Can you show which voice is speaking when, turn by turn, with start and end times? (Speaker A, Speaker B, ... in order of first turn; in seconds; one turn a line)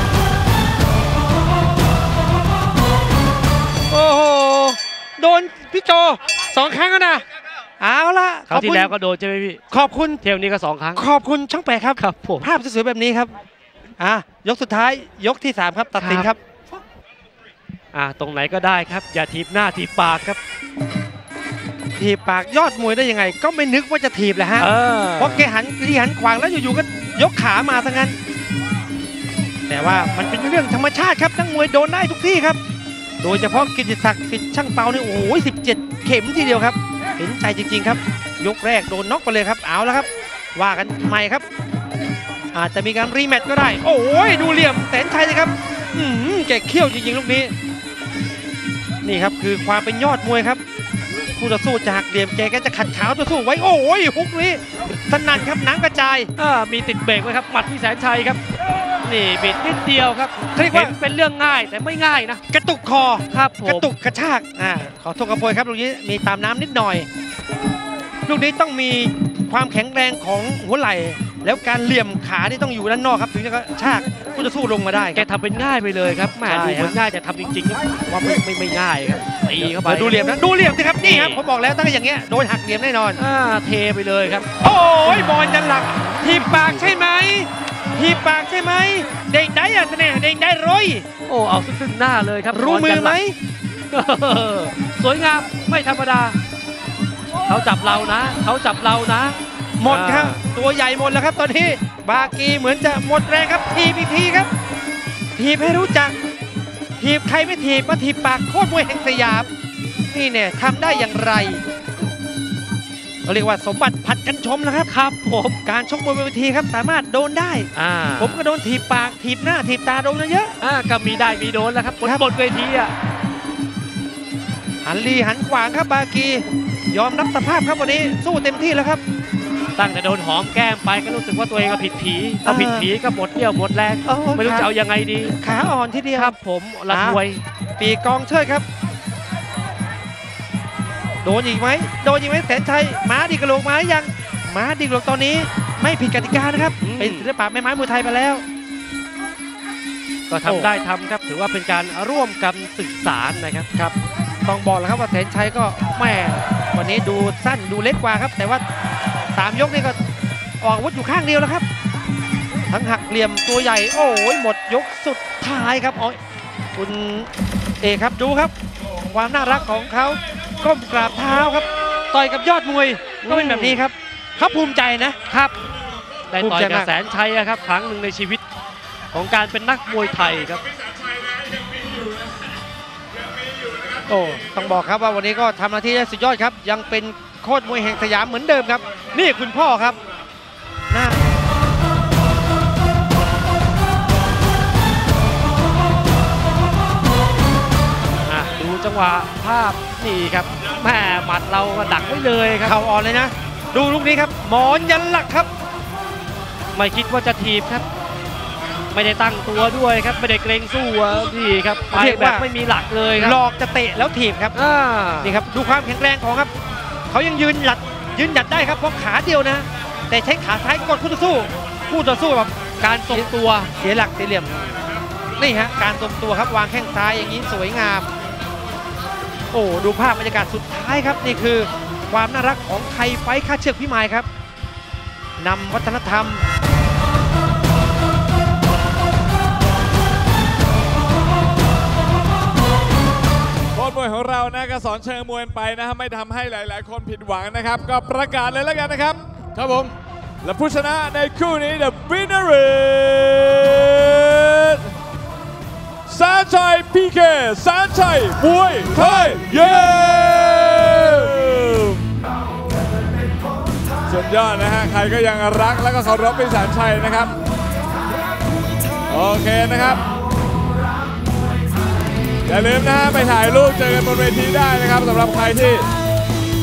Speaker A: 3.9-7.2
Speaker A: 7.8-8.9
Speaker B: 8.5-9.6
Speaker A: 9.7-10.2
Speaker B: 10.2-11.1
Speaker A: 10.9-13.3
Speaker B: 12.0-12.5
Speaker A: 14.0-16.4
Speaker B: 16.0-16.3
Speaker B: 17.9-20.4
Speaker A: 22.0-28.2
Speaker B: 24.6-25.5
Speaker A: 29.7-32.6
Speaker A: 33.2-41.5
Speaker A: 42.5-47.5
Speaker A: 49.0-50.6
Speaker A: 51.3-56.3
Speaker B: 56.4-58.4
Speaker B: 59.0-62.4
Speaker A: 60.6-61.0
Speaker A: 62.5-67.1
Speaker B: 63.3-63.9
Speaker A: 68.3-75.3
Speaker B: 75.1-80.3
Speaker A: 76.5-77.0
Speaker A: 79.6-83.2
Speaker B: 81.0-81.4
Speaker B: 83.2-84.5
Speaker A: 84.6-91.1
Speaker B: 86.1-86.9
Speaker B: 91.3-93.2
Speaker A: 92.5-93.4
Speaker B: 93.9-96.4
Speaker B: 97.5-100.4
Speaker A: 99.8-104.5
Speaker A: 105.4-106.2
Speaker A: 107.0-109.5
Speaker A: 110.1-111.6
Speaker A: 113.2-114.9
Speaker B: 114.9-115.6
Speaker A: 115.6-120.6
Speaker B: 117.8-118.4
Speaker B: 120.6-122.9
Speaker A: 124.8-129.0
Speaker B: 129.8-135.6
Speaker A: 132.4-132.9
Speaker A: 134.1-134.7
Speaker A: 135.4-136.3
Speaker B: 136.1-137.4
Speaker A: 136.9-137.2
Speaker A: 137.8-138.7
Speaker A: 141.2-148.4
Speaker B: 146.8-147.3
Speaker B: 150.3-153.7
Speaker A: 150.4-150.7
Speaker A: 154.5-158.6
Speaker A: 159.3-160.0
Speaker A: 160.6-161.7
Speaker A: 162.7-166.2
Speaker A: 166.8-167.3
Speaker A: 167.8-168.5
Speaker A: 169.1-175.2
Speaker B: 173.2-173.8
Speaker B: 175.3-175.6
Speaker B: 176.3-178.4
Speaker A: 176.4-176.9
Speaker B: 179.1-180.7
Speaker A: 184.1-190.0
Speaker A: 190.9-191.3
Speaker B: 198.2-202.8
Speaker A: 202.6-205.5
Speaker B: 206.7-207.8
Speaker B: 208.9-213.4
Speaker A: 211.9-212.5
Speaker A: 213.2-214.6
Speaker B: 214.5-215.4
Speaker A: 215.2-216.5
Speaker A: 217.1-228.1
Speaker B: 222.8-223.7
Speaker A: 229.5-234.3
Speaker A: 235.4-236.4
Speaker C: 243.7-254.9
Speaker C: 256.1-262.0
Speaker C: 264.1-267.3
Speaker C: 269.1-270.0
Speaker C: 272.5-275.9